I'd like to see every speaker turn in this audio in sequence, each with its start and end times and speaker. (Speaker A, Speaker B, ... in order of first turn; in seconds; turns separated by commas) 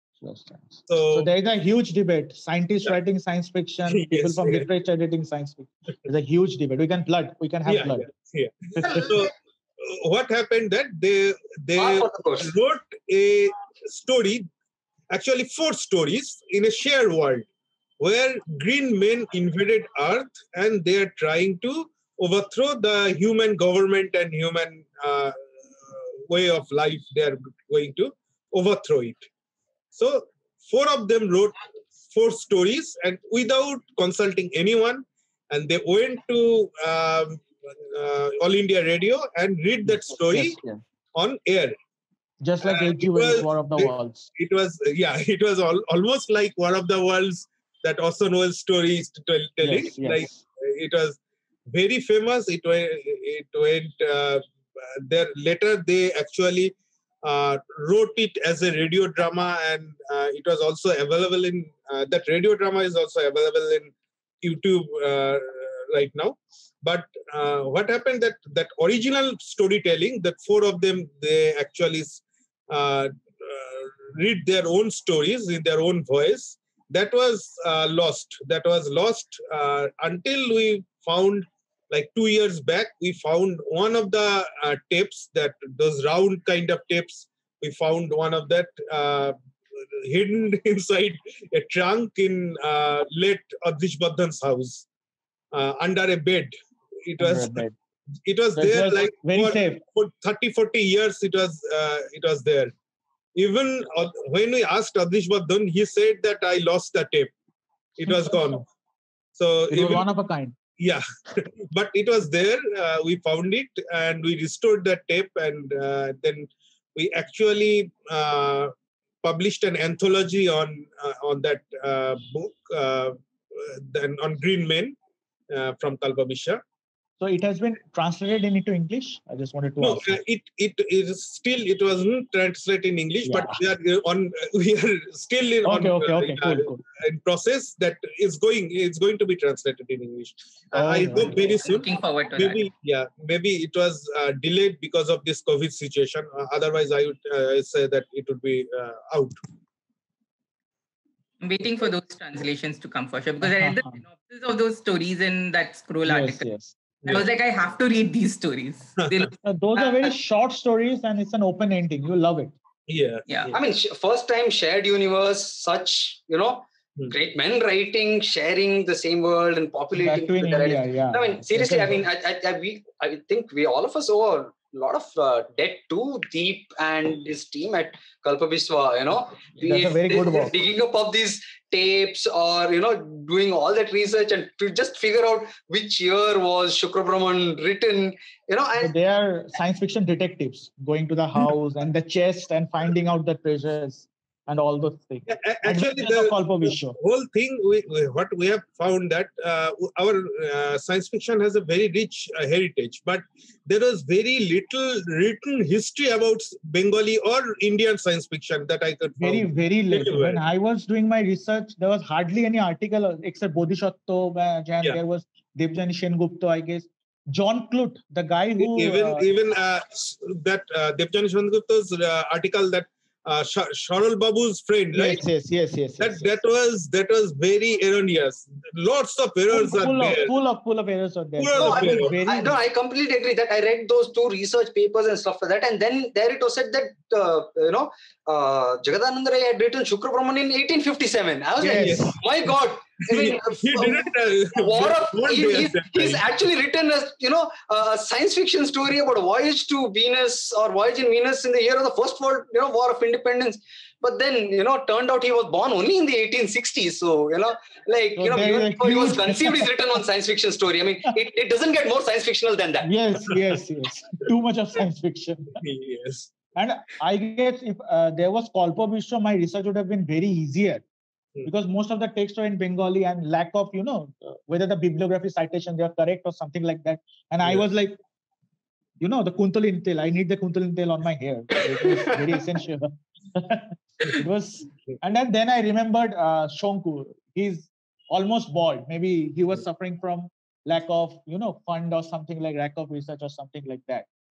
Speaker A: 0.2-8.1, Speaker B: 0.9-1.3, Speaker B: 3.9-4.7, Speaker B: 7.7-14.5, Speaker C: 11.8-12.5, Speaker B: 15.1-17.5, Speaker B: 18.0-29.3, Speaker B: 29.9-31.6, Speaker B: 32.1-40.6, Speaker A: 40.3-40.8, Speaker B: 41.1-41.8, Speaker A: 42.4-44.3, Speaker B: 42.6-51.2, Speaker A: 49.6-50.4, Speaker B: 51.7-89.4, Speaker B: 90.0-94.9, Speaker B: 95.5-96.5, Speaker B: 97.0-97.6, Speaker A: 97.2-97.8, Speaker B: 98.3-102.7, Speaker A: 98.6-99.8, Speaker B: 103.4-107.3, Speaker B: 108.0-108.6, Speaker A: 108.0-108.6, Speaker B: 109.4-110.1, Speaker A: 109.7-110.6, Speaker B: 110.8-125.0, Speaker B: 125.5-126.6, Speaker A: 127.2-130.2, Speaker B: 129.8-149.4, Speaker A: 133.2-133.6, Speaker A: 135.7-136.8, Speaker A: 140.7-141.6, Speaker D: 141.4-142.6, Speaker D: 151.4-156.5, Speaker A: 153.4-154.0, Speaker A: 156.1-156.8, Speaker D: 157.1-159.3, Speaker A: 159.4-162.6, Speaker B: 162.9-163.6, Speaker D: 163.3-163.6, Speaker C: 163.5-188.9, Speaker A: 169.9-172.0, Speaker A: 179.6-180.6, Speaker A: 188.8-197.0, Speaker B: 195.3-210.4, Speaker A: 209.2-219.2, Speaker B: 218.6-225.2, Speaker A: 224.9-226.3, Speaker B: 226.0-230.3, Speaker A: 229.5-232.6, Speaker B: 231.4-232.2, Speaker C: 231.6-262.9, Speaker A: 241.6-242.1, Speaker B: 241.7-242.2, Speaker B: 243.1-246.2, Speaker A: 258.2-260.0, Speaker A: 262.8-265.6, Speaker B: 265.6-266.3, Speaker A: 266.6-270.8, Speaker A: 271.4-278.0, Speaker A: 279.0-294.1